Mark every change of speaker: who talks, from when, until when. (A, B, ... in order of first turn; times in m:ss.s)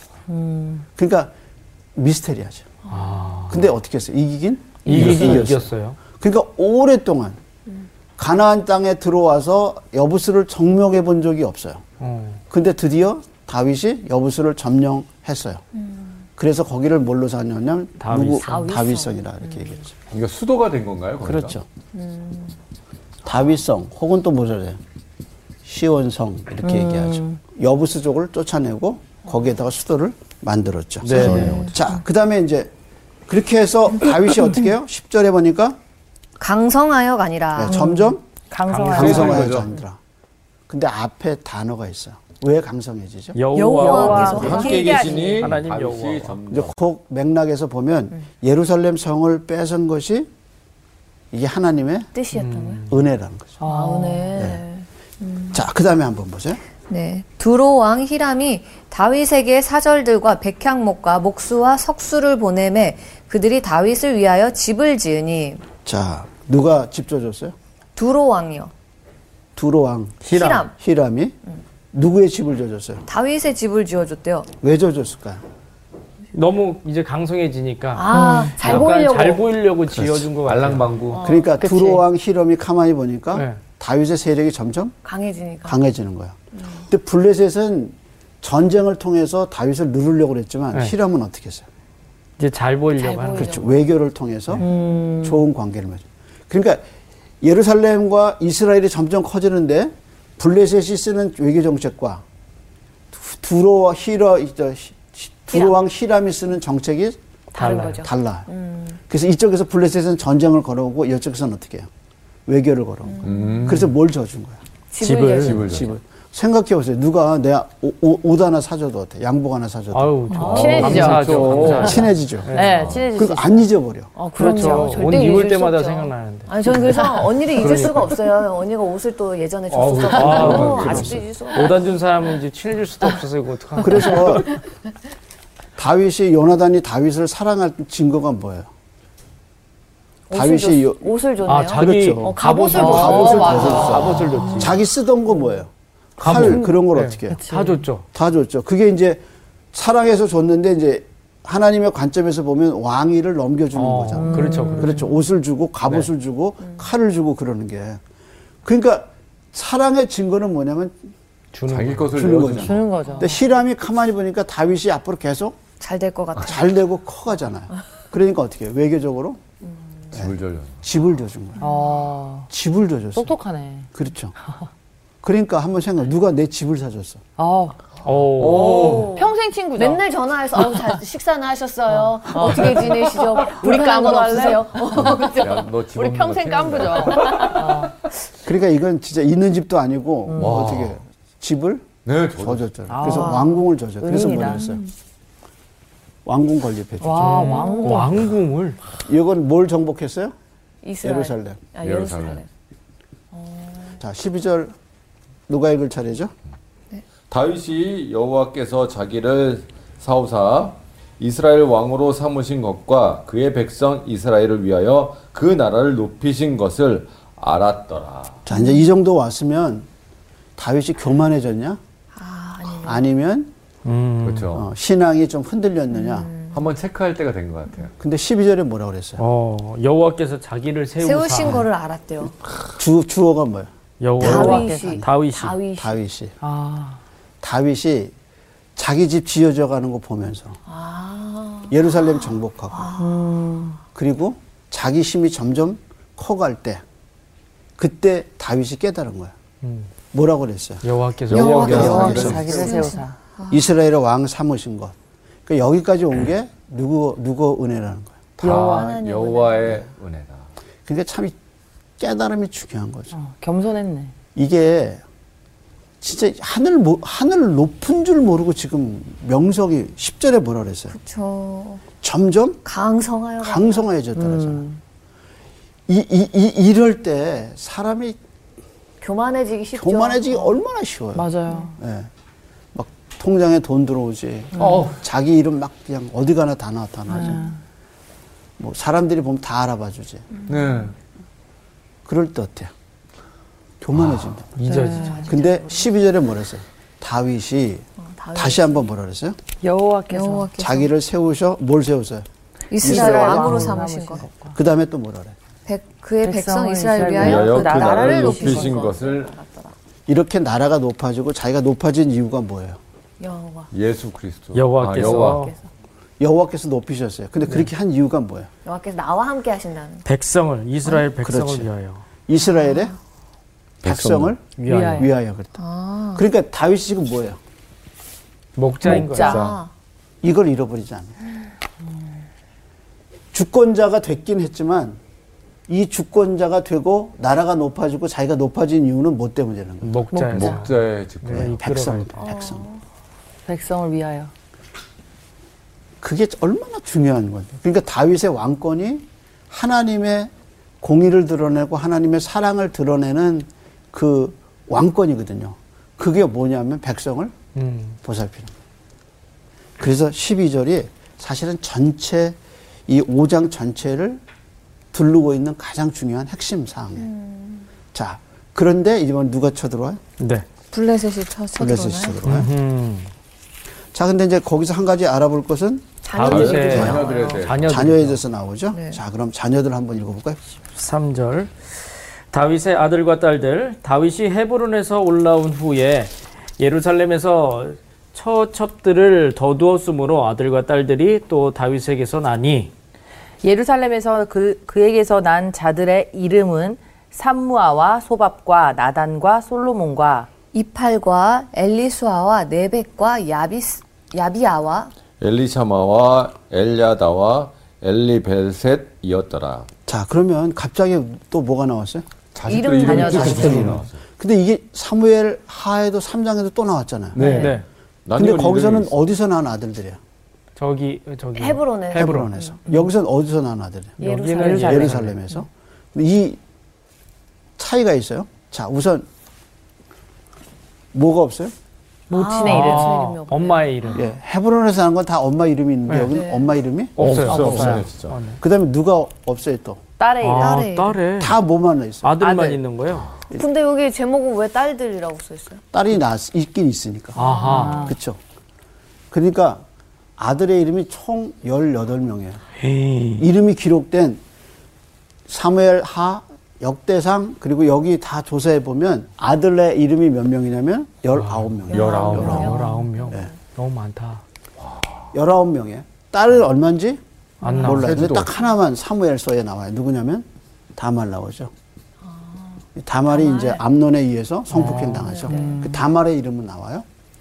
0:00.3-0:00.9 A
0:01.0-0:01.3 B
0:02.0-0:02.7 B
0:02.9-0:03.2 C
0:02.9-0:03.7 D
0:03.5-0:07.4 B
0:04.8-0:06.0 D
0:08.2-0:11.8 B
0:12.0-0:12.4 D
0:12.5-0:15.6 B
0:16.4-0:19.9 B
0:18.0-0:18.7 D
0:18.4-0:19.2 C
0:20.1-0:21.6 E
0:21.2-0:21.6 B
0:21.9-0:22.5 C
0:23.2-0:24.8 B
0:25.6-0:32.7 B
0:26.6-0:27.4 A
0:31.1-0:31.7 D
0:31.1-0:31.7 E
0:31.4-0:31.7 A
0:33.3-0:35.8 B
0:36.4-0:37.9 C
0:37.6-0:38.2 B
0:37.7-0:39.6 A
0:38.7-0:39.5 D
0:38.8-0:39.7 E
0:38.9-0:40.0 B
0:40.7-0:43.4 B
0:43.4-0:44.9 D
0:43.6-0:45.4 C
0:43.7-0:45.5 A
0:44.0-0:46.8 E
0:45.4-0:46.4 D
0:46.5-0:50.3 B
0:51.3-0:52.1 B
0:52.2-0:52.8 C
0:52.3-0:53.0 D
0:52.9-0:53.6 B
0:53.6-0:54.5 A
0:53.6-0:55.6 C
0:54.4-0:54.6 B
0:55.5-0:56.6 B
0:56.9-1:05.6 C
1:05.8-1:07.6 B
1:08.0-1:08.7 C
1:09.6-1:11.4 B
1:10.3-1:10.6 D
1:10.3-1:10.7 C
1:11.9-1:13.1 B
1:13.1-1:14.5 C
1:14.6-1:15.4 B
1:16.3-1:21.2 D
1:17.9-1:19.5 C
1:18.1-1:18.5 A
1:19.9-1:21.2 E
1:21.2-1:21.5 C
1:21.2-1:25.0 B
1:21.6-1:22.0 A
1:23.3-1:23.6 D
1:25.0-1:25.8 C
1:25.6-1:31.7 B
1:26.6-1:26.8 C
1:32.4-1:33.6 D
1:33.0-1:33.8 C
1:33.4-1:34.7 B
1:34.6-1:35.4 A
1:35.2-1:36.8 B
1:37.4-1:42.2 B
1:43.1-1:47.2 B
1:47.5-1:49.0 C
1:47.6-1:48.1 D
1:48.0-1:48.5 B
1:49.1-1:51.9 B
1:52.5-1:54.6 B
1:53.1-1:53.4 C
1:53.2-1:53.9 E
1:54.9-1:55.9 C
1:55.0-1:55.7 D
1:55.3-1:55.9 E
1:55.6-2:01.1 B
1:59.9-2:02.9 D
2:00.3-2:05.4 A
2:00.4-2:02.1 E
2:00.5-2:01.2 C
2:01.6-2:02.5 B
2:02.6-2:03.1 E
2:03.1-2:04.1 B
2:04.2-2:11.8 C
2:04.4-2:08.1 D
2:09.7-2:14.6 D
2:09.8-2:11.2 E
2:10.2-2:11.0 B
2:13.8-2:14.5 B
2:15.8-2:18.7 B
2:20.3-2:24.1 C
2:20.3-2:21.1 B
2:21.5-2:24.8 D
2:21.7-2:27.4 B
2:22.7-2:24.6 A
2:26.2-2:28.1 D
2:27.3-2:27.8 A
2:28.1-2:38.0 B
2:33.7-2:35.0 D
2:34.2-2:35.1 A
2:38.6-2:41.1 B
2:41.5-2:42.2 D
2:41.7-2:42.8 E
2:42.1-2:45.6 B
2:42.5-2:43.4 A
2:43.1-2:43.3 C
2:45.8-2:46.7 C
2:46.4-2:49.4 B
2:50.1-2:50.8 E
2:50.1-2:51.7 B
2:51.6-2:52.5 A
2:52.5-2:53.4 B
2:53.1-2:53.9 A
2:53.9-2:54.3 B
2:55.2-2:57.2 B
2:57.4-2:57.8 A
2:58.0-2:58.9 D
2:58.3-2:59.3 E
2:58.5-3:01.0 A
2:58.7-3:05.6 C
3:01.9-3:07.9 A
3:05.2-3:07.6 E
3:07.2-3:07.6 C
3:08.4-3:14.8 B
3:10.3-3:10.6 A
3:10.4-3:11.0 E
3:12.0-3:12.6 E
3:12.9-3:14.9 A
3:13.0-3:13.4 C
3:16.2-3:17.6 B
3:17.0-3:18.2 A
3:17.2-3:18.8 D
3:17.4-3:18.1 C
3:19.0-3:20.3 B
3:20.8-3:22.5 C
3:21.0-3:21.6 B
3:21.8-3:22.4 E
3:23.3-3:24.0 C
3:24.0-3:24.7 B
3:25.5-3:26.3 B
3:27.3-3:38.4 E
3:38.5-3:39.9 B
3:38.5-3:38.9 C
3:40.6-3:41.8 B
3:42.2-3:43.0 C
3:42.8-3:43.5 B
3:43.8-3:44.6 D
3:44.2-3:44.7 E
3:44.5-3:46.3 B
3:45.9-3:46.6 C
3:46.5-3:47.9 E
3:48.0-3:49.2 B
3:49.2-3:51.6 D
3:51.0-3:52.4 C
3:52.8-3:55.1 B
3:54.0-3:55.6 D
3:54.2-3:56.0 C
3:54.2-3:55.0 A
3:55.8-3:56.3 B
3:56.4-3:57.0 A
3:57.4-3:58.1 B
3:58.8-4:00.6 B
4:00.7-4:03.2 C
4:01.7-4:02.9 B
4:03.0-4:03.8 A
4:04.0-4:06.8 B
4:07.8-4:09.3 B
4:09.6-4:09.9 D
4:10.1-4:10.8 B
4:10.8-4:12.3 D
4:11.3-4:12.6 E
4:11.3-4:13.6 C
4:11.5-4:12.9 B
4:11.6-4:13.2 A
4:13.5-4:15.0 B
4:15.5-4:18.4 B
4:18.4-4:20.5 E
4:18.4-4:18.9 A
4:18.5-4:19.8 C
4:20.9-4:21.4 B
4:22.0-4:23.1 B
4:23.1-4:24.1 A
4:24.4-4:25.0 B
4:26.0-4:31.0 B
4:30.9-4:31.8 C
4:32.0-4:32.6 B
4:32.6-4:33.9 C
4:33.4-4:34.7 B
4:34.2-4:34.8 A
4:35.9-4:38.2 B
4:39.0-4:40.6 C
4:39.8-4:42.1 B
4:41.2-4:41.8 A
4:42.7-4:47.5 B
4:44.6-4:44.9 A
4:44.6-4:45.0 E
4:47.1-4:47.6 A
4:48.6-4:50.3 B
4:50.5-4:50.9 E
4:52.0-4:52.7 B
4:53.8-4:54.6 B
4:54.6-4:55.2 D
4:54.6-4:55.3 A
4:54.7-4:55.9 C
4:55.3-4:59.4 B
4:58.0-4:58.8 C
4:59.6-5:00.5 A
5:00.1-5:00.9 C
5:00.6-5:02.3 B
5:02.7-5:04.3 C
5:02.8-5:04.6 A
5:02.8-5:03.8 B
5:04.5-5:05.4 B
5:05.7-5:09.8 C
5:06.2-5:09.0 A
5:07.1-5:09.3 E
5:10.1-5:12.8 B
5:13.2-5:13.7 C
5:13.7-5:15.5 E
5:14.5-5:15.5 D
5:15.0-5:15.4 C
5:16.2-5:18.5 B
5:18.6-5:20.0 C
5:20.0-5:22.0 D
5:20.9-5:21.7 B
5:22.3-5:23.0 B
5:23.8-5:24.3 E
5:23.8-5:25.6 B
5:24.6-5:25.1 D
5:24.7-5:25.1 A
5:25.6-5:26.2 C
5:26.2-5:27.4 B
5:28.6-5:29.5 D
5:28.8-5:29.6 E
5:28.8-5:29.5 A
5:29.0-5:29.7 C
5:30.2-5:31.2 B
5:33.3-5:35.0 B
5:35.7-5:40.0 B
5:39.8-5:42.2 D
5:40.2-5:40.6 A
5:40.3-5:41.6 E
5:41.3-5:42.7 B
5:42.2-5:42.8 C
5:43.5-5:44.3 A
5:46.0-5:57.3 B
5:57.6-5:58.0 D
5:58.0-5:58.5 B
5:59.8-6:02.4 B
6:02.9-6:04.2 B
6:04.9-6:07.1 B
6:07.0-6:07.7 C
6:07.9-6:10.0 B
6:10.2-6:10.4 D
6:10.7-6:12.2 C
6:11.6-6:12.5 B
6:12.2-6:13.1 D
6:13.9-6:20.4 B
6:16.0-6:17.5 C
6:16.1-6:18.2 D
6:16.2-6:17.9 E
6:18.7-6:19.0 C
6:20.7-6:21.5 D
6:22.3-6:32.7 D
6:33.4-6:40.3 A
6:40.5-6:44.9 C
6:45.2-6:49.7 E
6:49.9-6:52.1 B
6:52.3-6:54.0 E
6:52.5-6:53.7 C
6:52.8-6:53.7 A
6:53.0-6:57.2 B
6:57.2-6:57.5 E
6:57.2-6:57.5 A
6:57.2-6:57.7 D
6:58.1-6:59.0 E
6:58.2-7:00.0 B
7:00.6-7:02.3 D
7:01.4-7:02.6 C
7:01.9-7:04.0 B
7:04.0-7:05.2 D
7:04.0-7:04.9 C
7:04.0-7:05.0 A
7:04.6-7:06.4 B
7:07.6-7:09.1 B
7:10.9-7:11.5 B
7:12.1-7:13.0 A
7:12.1-7:14.0 C
7:12.4-7:14.1 D
7:14.0-7:17.9 B
7:16.1-7:16.5 C
7:17.0-7:18.4 D
7:17.0-7:18.2 E
7:18.4-7:19.8 B
7:20.0-7:20.7 A
7:20.2-7:21.4 D
7:20.3-7:21.0 C
7:21.2-7:22.6 B
7:22.0-7:23.1 D
7:23.3-7:25.6 C
7:25.7-7:28.2 B
7:27.2-7:27.9 D
7:27.2-7:27.8 C
7:27.3-7:28.0 A
7:29.1-7:29.6 B
7:30.2-7:32.4 B
7:32.6-7:33.3 D
7:33.2-7:34.2 B
7:35.3-7:42.6 B
7:41.1-7:41.5 D
7:41.7-7:42.6 E
7:41.7-7:43.3 C
7:42.0-7:44.2 D
7:44.6-7:45.0 E
7:45.1-7:47.0 B
7:47.4-7:48.0 D
7:47.6-7:51.5 B
7:47.6-7:48.3 E
7:52.1-7:53.6 C
7:52.8-7:56.8 B
7:54.5-7:55.1 D
7:54.8-7:55.5 C
7:55.3-7:55.8 A